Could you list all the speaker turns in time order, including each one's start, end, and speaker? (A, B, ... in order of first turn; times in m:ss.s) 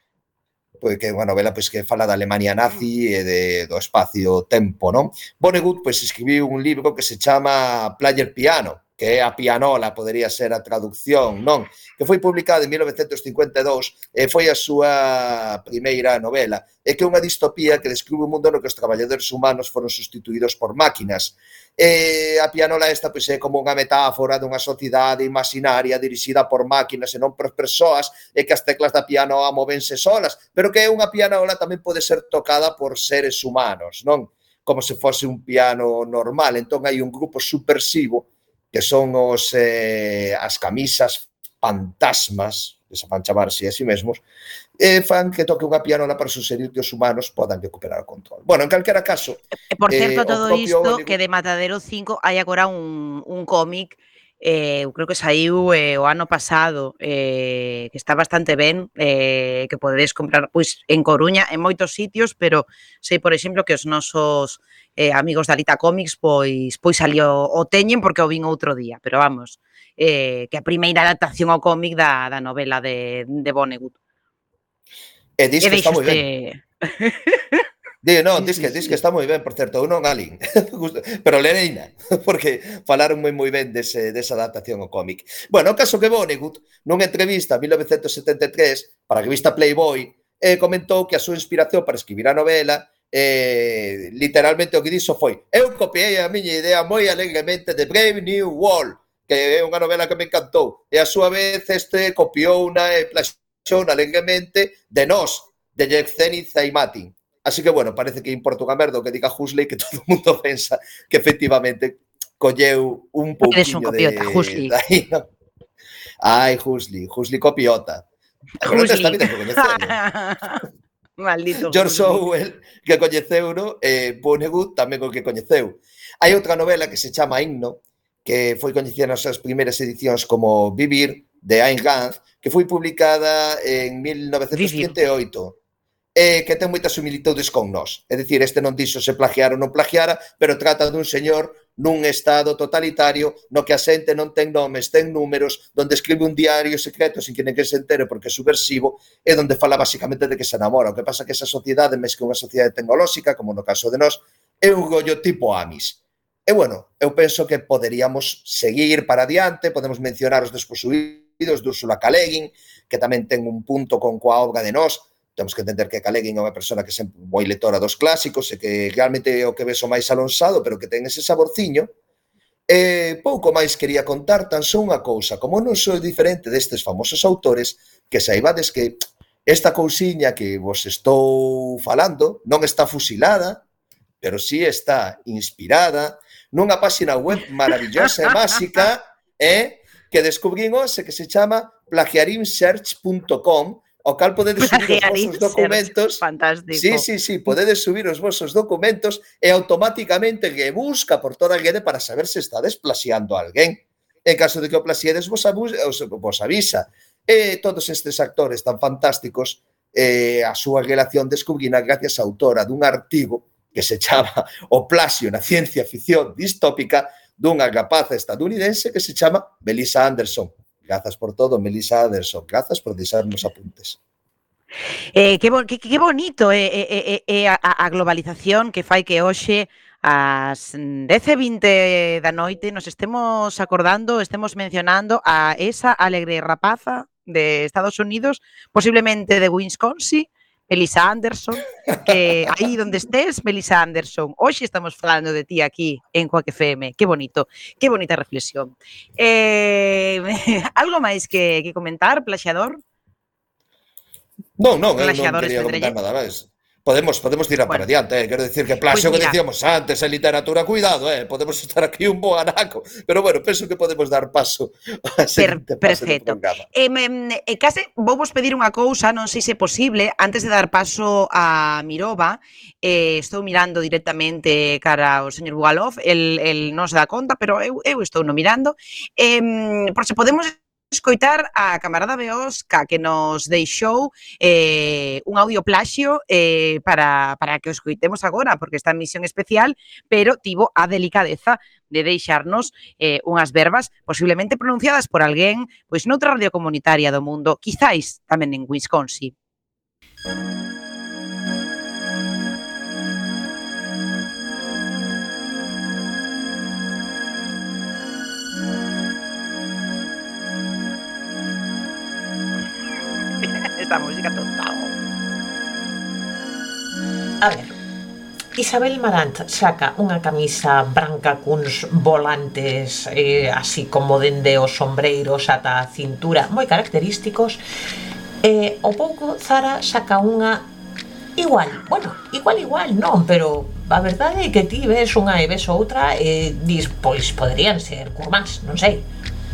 0:00.8-0:44.2 A
0:44.8-0:51.2 A
0:49.7-1:14.0 B
1:15.4-1:16.2 A
1:15.6-1:17.6 B
1:18.0-1:55.3 A
1:18.4-1:19.0 B
1:53.4-1:54.7 B
1:56.2-1:58.1 A
1:58.6-2:00.0 A
1:58.7-2:00.6 B
2:01.2-2:02.2 B
2:01.7-2:15.6 A
2:14.5-2:15.0 B
2:16.2-2:51.9 A
2:52.7-3:03.6 A
3:04.2-3:44.0 A
3:14.6-3:17.1 B
3:45.2-4:12.8 B
4:14.6-4:26.7 A
4:15.0-4:15.9 B
4:18.9-4:19.4 B
4:25.4-4:59.3 B
5:13.4-5:14.9 B
5:17.4-5:17.8 C
5:18.6-5:27.6 C
5:28.4-5:30.7 C
5:31.4-5:39.1 C